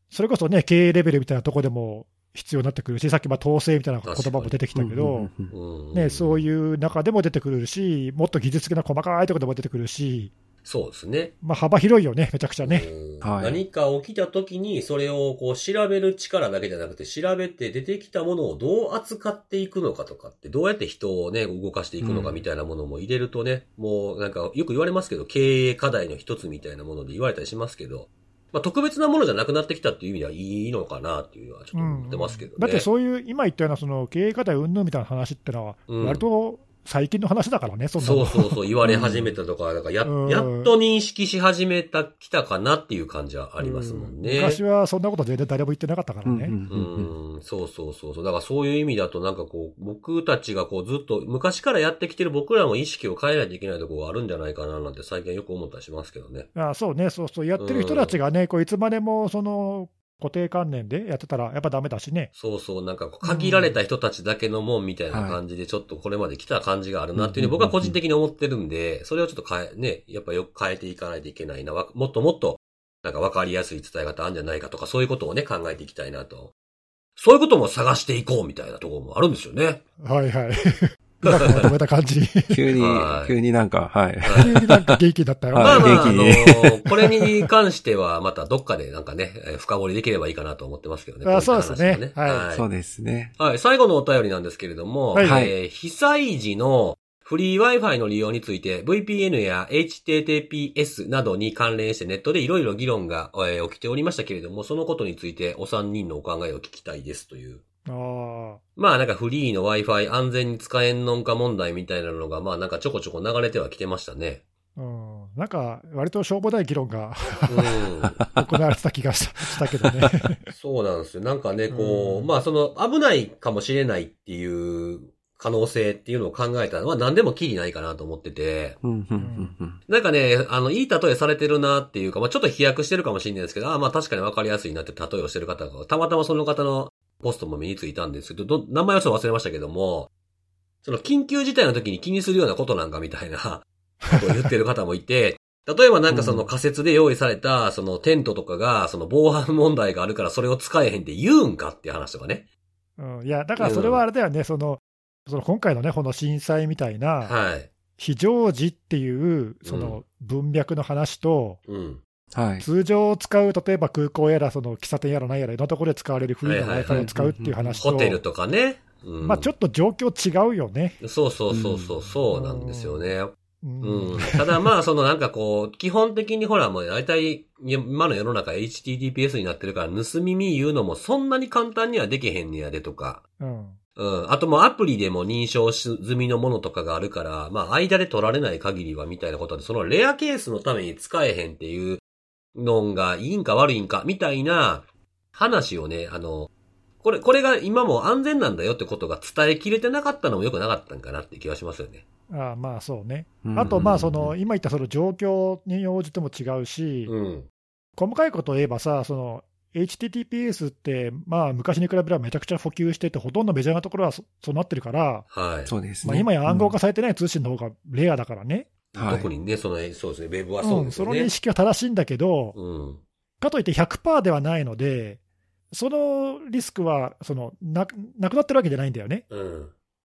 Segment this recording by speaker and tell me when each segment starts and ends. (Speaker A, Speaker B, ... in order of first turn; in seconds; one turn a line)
Speaker A: 0.1-5.3
Speaker B: 4.0-4.5
Speaker C: 4.7-5.5
Speaker B: 5.5-6.5
Speaker A: 5.9-10.3
Speaker B: 10.6-11.3
Speaker A: 11.4-12.9
Speaker B: 12.6-32.9
Speaker C: 13.2-13.6
Speaker C: 22.0-22.4
Speaker A: 31.8-38.6
Speaker B: 35.9-36.2
Speaker B: 38.0-44.6
Speaker C: 38.8-39.3
Speaker A: 40.0-40.7
Speaker A: 43.6-46.6
Speaker C: 46.2-47.1
Speaker B: 46.7-56.5
Speaker A: 56.5-62.3
Speaker B: 57.6-58.2
Speaker B: 62.4-76.5
Speaker A: 63.2-63.8
Speaker C: 65.1-65.4
Speaker C: 67.2-68.0
Speaker B: 77.2-79.8
Speaker A: 80.0-82.6
Speaker B: 81.2-81.7
Speaker C: 82.5-85.0
Speaker B: 82.8-83.3
Speaker B: 84.2-84.5
Speaker A: 84.4-86.1
Speaker C: 85.5-87.3
Speaker B: 85.6-92.7
Speaker A: 91.2-92.5
Speaker C: 92.5-93.3
Speaker B: 93.4-107.6
Speaker A: 95.1-95.4
Speaker C: 95.2-95.6
Speaker A: 107.9-108.6
Speaker B: 108.8-114.4
Speaker A: 114.8-117.8
Speaker B: 117.5-118.2
Speaker C: 118.2-118.5
Speaker A: 118.3-120.4
Speaker C: 119.8-120.1
Speaker B: 120.5-128.8
Speaker A: 121.7-122.3
Speaker C: 128.8-129.8
Speaker A: 129.2-129.6
Speaker B: 129.9-140.1
Speaker B: 140.8-152.5
Speaker C: 146.1-146.5
Speaker A: 153.0-157.4
Speaker B: 153.6-154.0
Speaker B: 157.2-157.7
Speaker A: 158.0-161.6
Speaker B: 159.7-160.0
Speaker B: 161.7-162.0
Speaker C: 162.3-162.7
Speaker A: 162.6-168.2
Speaker B: 166.4-167.1
Speaker C: 166.9-167.8
Speaker B: 167.8-169.5
Speaker A: 169.2-171.0
Speaker B: 171.0-183.2
Speaker C: 171.5-172.0
Speaker A: 172.3-173.1
Speaker A: 173.6-174.4
Speaker A: 183.4-183.8
Speaker B: 184.0-192.0
Speaker B: 192.6-196.5
Speaker B: 197.0-202.0
Speaker A: 202.3-207.1
Speaker C: 203.4-204.3
Speaker B: 203.6-204.0
Speaker B: 207.1-207.5
Speaker A: 208.0-215.3
Speaker B: 215.3-215.7
Speaker C: 215.7-216.8
Speaker A: 216.0-218.7
Speaker C: 218.9-219.3
Speaker B: 219.0-221.3
Speaker A: 220.6-222.6
Speaker B: 222.6-223.0
Speaker A: 223.4-225.2
Speaker A: 225.7-229.2
Speaker B: 229.3-229.7